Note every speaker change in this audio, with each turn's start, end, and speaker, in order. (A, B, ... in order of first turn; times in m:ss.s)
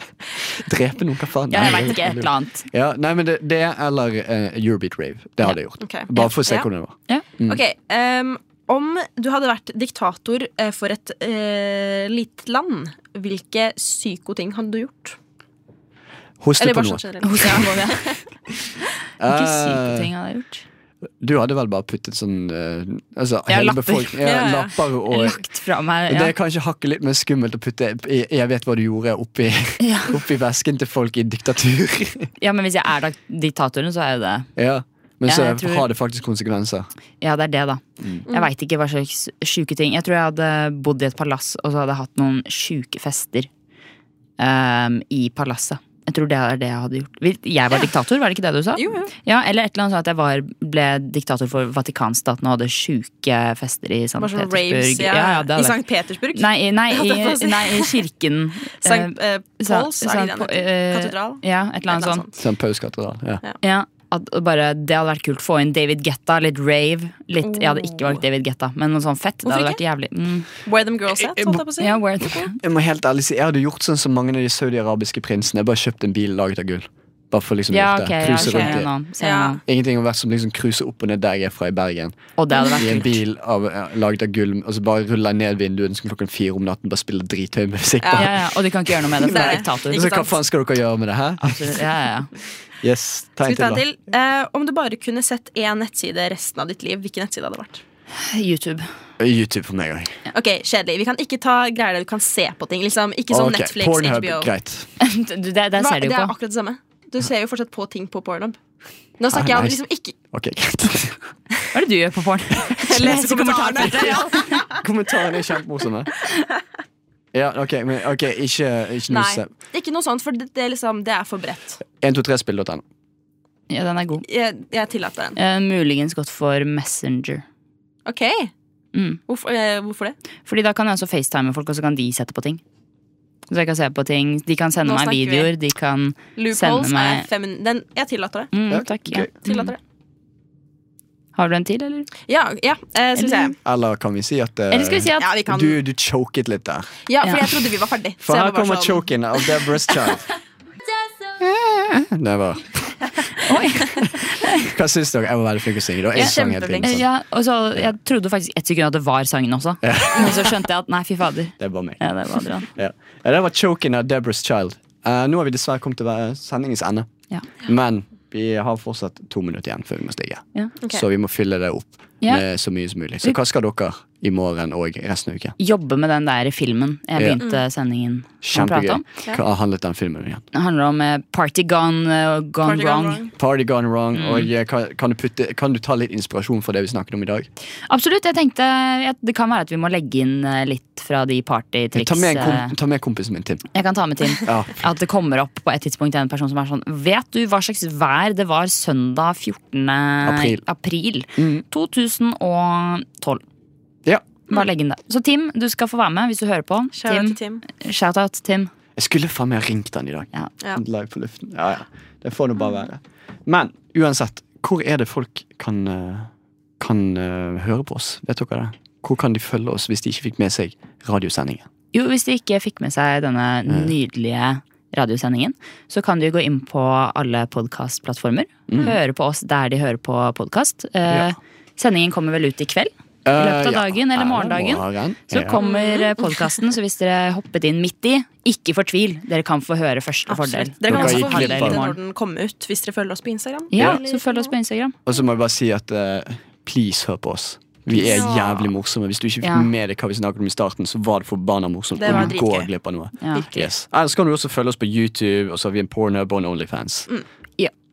0:00.5-0:07.6 A
0:01.5-0:02.7 B
0:01.6-0:01.9 C
0:05.8-0:06.7 C
0:07.5-0:15.2 C
0:16.4-0:17.0 A
0:16.6-0:18.2 C
0:17.2-0:18.1 B
0:19.2-0:20.1 A
0:19.3-0:20.6 B
0:21.2-0:25.4 A
0:23.5-0:24.2 B
0:24.2-0:24.8 C
0:25.1-0:26.3 B
0:26.1-0:32.3 A
0:29.8-0:30.2 B
0:32.4-0:34.5 B
0:34.6-0:36.9 A
0:35.3-0:35.9 B
0:37.2-0:43.5 B
0:44.4-0:55.8 B
0:48.8-0:49.1 C
0:54.2-0:58.1 C
0:56.3-1:02.2 B
0:58.8-1:02.3 C
1:02.4-1:03.4 A
1:03.6-1:10.5 B
1:07.4-1:08.2 C
1:09.4-1:09.8 C
1:10.7-1:12.5 C
1:11.2-1:11.6 A
1:11.8-1:12.6 B
1:12.6-1:18.9 A
1:17.7-1:19.6 B
1:18.4-1:19.6 C
1:19.6-1:22.2 A
1:22.4-1:23.2 B
1:22.5-1:22.8 C
1:22.8-1:28.4 A
1:28.0-1:28.3 C
1:28.2-1:30.1 B
1:29.2-1:30.4 C
1:29.3-1:31.8 A
1:31.4-1:32.3 B
1:32.8-1:33.8 A
1:33.4-1:37.8 C
1:38.2-1:38.9 B
1:39.2-1:40.2 A
1:40.3-1:44.5 C
1:43.3-1:44.9 A
1:45.0-1:46.3 B
1:45.8-1:48.6 C
1:49.2-1:50.2 C
1:49.3-1:49.8 A
1:50.3-1:51.2 A
1:51.7-1:54.6 B
1:52.6-1:54.7 C
1:54.7-1:56.1 A
1:57.3-1:59.5 A
1:59.1-2:01.8 C
2:02.0-2:02.8 A
2:03.7-2:04.2 B
2:04.3-2:05.4 C
2:05.4-2:07.4 B
2:08.1-2:08.5 C
2:08.9-2:09.2 B
2:09.3-2:10.2 C
2:10.5-2:12.6 B
2:13.5-2:17.2 B
2:14.8-2:15.5 C
2:16.4-2:18.5 C
2:18.5-2:19.7 B
2:18.7-2:19.3 A
2:19.5-2:19.8 C
2:21.4-2:22.1 B
2:22.3-2:23.6 C
2:23.2-2:23.5 B
2:23.6-2:27.0 A
2:24.7-2:25.3 B
2:25.2-2:25.8 C
2:27.1-2:30.2 C
2:27.2-2:27.5 B
2:28.2-2:30.3 A
2:31.4-2:32.9 A
2:33.4-2:34.7 B
2:34.6-2:37.1 A
2:36.1-2:37.0 C
2:36.2-2:42.7 B
2:39.8-2:40.5 A
2:41.6-2:42.0 A
2:42.7-2:47.1 A
2:47.6-2:55.6 A
2:55.6-2:59.0 B
2:57.2-2:57.4 A
2:58.4-3:00.4 A
3:00.5-3:03.2 B
3:02.6-3:03.3 C
3:03.4-3:07.5 A
3:04.1-3:04.5 B
3:07.9-3:12.8 B
3:12.0-3:13.6 A
3:13.7-3:23.4 B
3:14.4-3:14.8 A
3:20.2-3:20.6 A
3:21.4-3:21.6 A
3:24.5-3:28.7 B
3:27.0-3:27.6 C
3:29.0-3:41.7 A
3:41.9-4:02.0 B
3:43.7-3:43.9 A
3:48.7-3:49.0 A
3:53.2-3:55.6 A
3:55.6-3:56.3 C
4:00.3-4:04.5 C
4:00.9-4:01.8 A
4:03.7-4:05.0 B
4:05.1-4:17.1 A
4:07.9-4:08.2 B
4:07.9-4:08.7 C
4:09.4-4:09.7 B
4:12.0-4:12.7 C
4:13.2-4:13.6 B